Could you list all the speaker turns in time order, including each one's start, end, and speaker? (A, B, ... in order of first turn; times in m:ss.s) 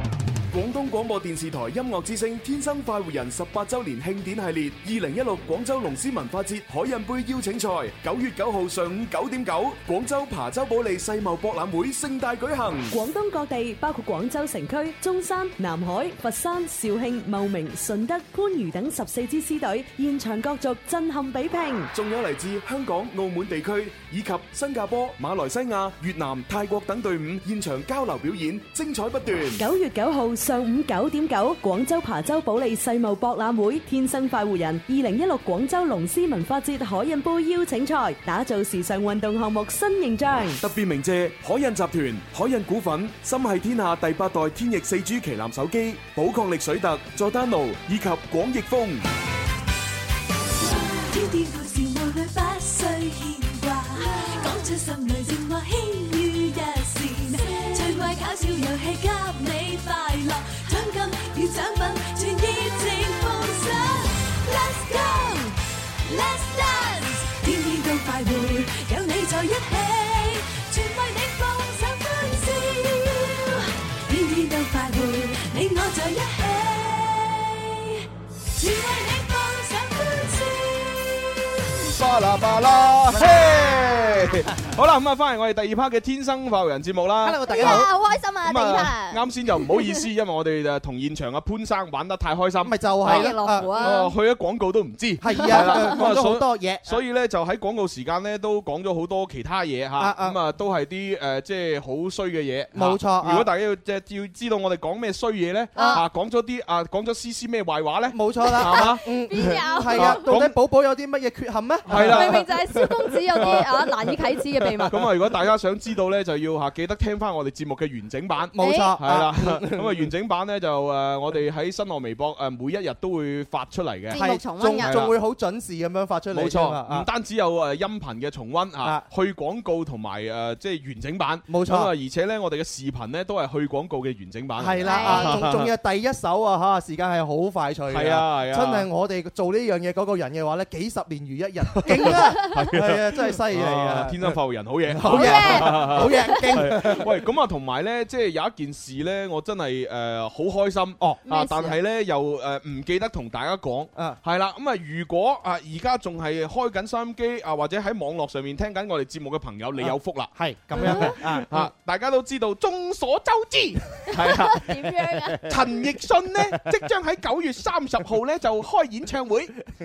0:00.5-0:13.0 A
0:12.9-0:21.9 B
0:21.9-0:29.6 A
0:29.6-0:40.6 B
0:40.6-0:49.1 A
0:50.6-1:21.4 C
0:54.1-0:54.5 D
1:21.8-1:27.9 E
1:23.1-1:23.6 F
1:27.2-1:27.9 F
1:27.5-1:29.2 D
1:28.4-1:49.0 E
1:32.6-1:34.0 F
1:33.0-1:34.1 D
1:35.2-1:37.0 F
1:35.3-1:36.0 D
1:40.0-1:40.4 F
1:42.7-1:43.5 F
1:45.8-1:46.0 F
1:45.8-1:46.0 D
1:48.1-1:53.6 F
1:48.7-1:50.3 D
1:49.9-1:50.6 E
1:51.9-1:52.5 E
1:52.0-1:55.0 D
1:53.4-1:53.7 E
1:54.9-2:05.1 E
1:58.5-2:00.1 F
1:58.6-1:59.0 D
2:04.1-2:05.0 D
2:04.1-2:07.1 F
2:06.3-2:15.7 E
2:11.5-2:11.9 F
2:14.6-2:24.4 F
2:14.8-2:15.4 D
2:17.9-2:18.9 E
2:21.8-2:44.8 E
2:24.9-2:27.1 F
2:25.1-2:26.5 D
2:31.3-2:31.8 D
2:39.8-2:41.7 F
2:40.8-2:41.2 D
2:44.1-2:45.5 D
2:45.5-2:49.6 E